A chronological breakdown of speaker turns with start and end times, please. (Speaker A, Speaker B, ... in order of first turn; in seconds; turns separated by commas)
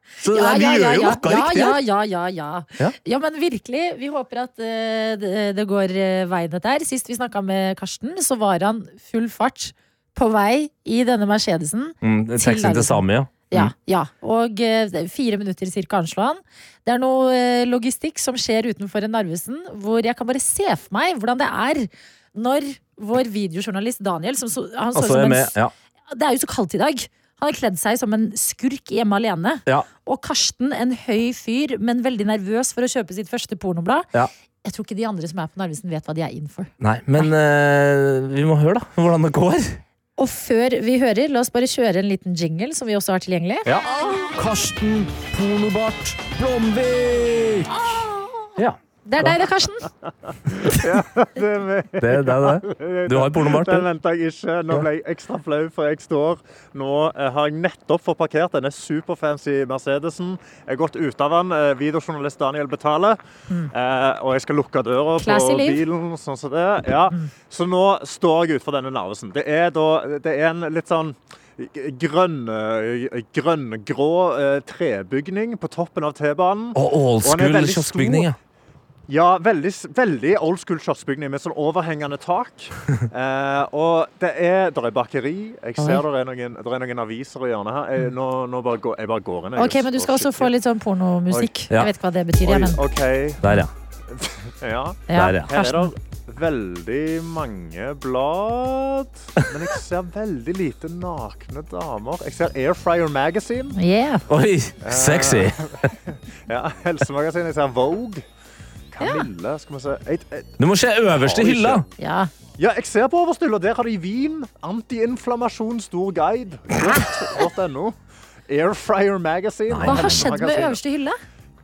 Speaker A: 0.2-1.8, Speaker B: 0.3-25.5, Speaker A: 12.0-13.7, Speaker A: 24.9-25.7, Speaker B: 26.1-34.1, Speaker B: 34.6-37.3, Speaker A: 36.8-39.8, Speaker B: 40.2-44.2, Speaker A: 43.6-47.8, Speaker B: 47.9-48.5, Speaker A: 48.6-49.4, Speaker B: 49.0-49.9, Speaker C: 50.5-63.2, Speaker A: 52.0-53.9, Speaker C: 63.7-78.3, Speaker B: 65.2-65.8, Speaker A: 76.8-78.4, Speaker C: 79.1-90.5, Speaker B: 85.8-86.0, Speaker B: 89.6-92.8, Speaker C: 92.4-93.4, Speaker A: 93.4-93.7, Speaker C: 94.1-103.8, Speaker B: 95.1-95.9, Speaker A: 95.1-95.5, Speaker B: 103.8-104.2, Speaker A: 104.3-105.6, Speaker C: 104.8-108.2, Speaker C: 108.9-110.6, Speaker B: 109.0-109.3, Speaker A: 110.6-111.8, Speaker C: 111.1-111.8, Speaker B: 112.0-112.3, Speaker C: 112.6-118.0, Speaker C: 118.5-120.8, Speaker A: 119.7-120.3, Speaker B: 119.8-121.2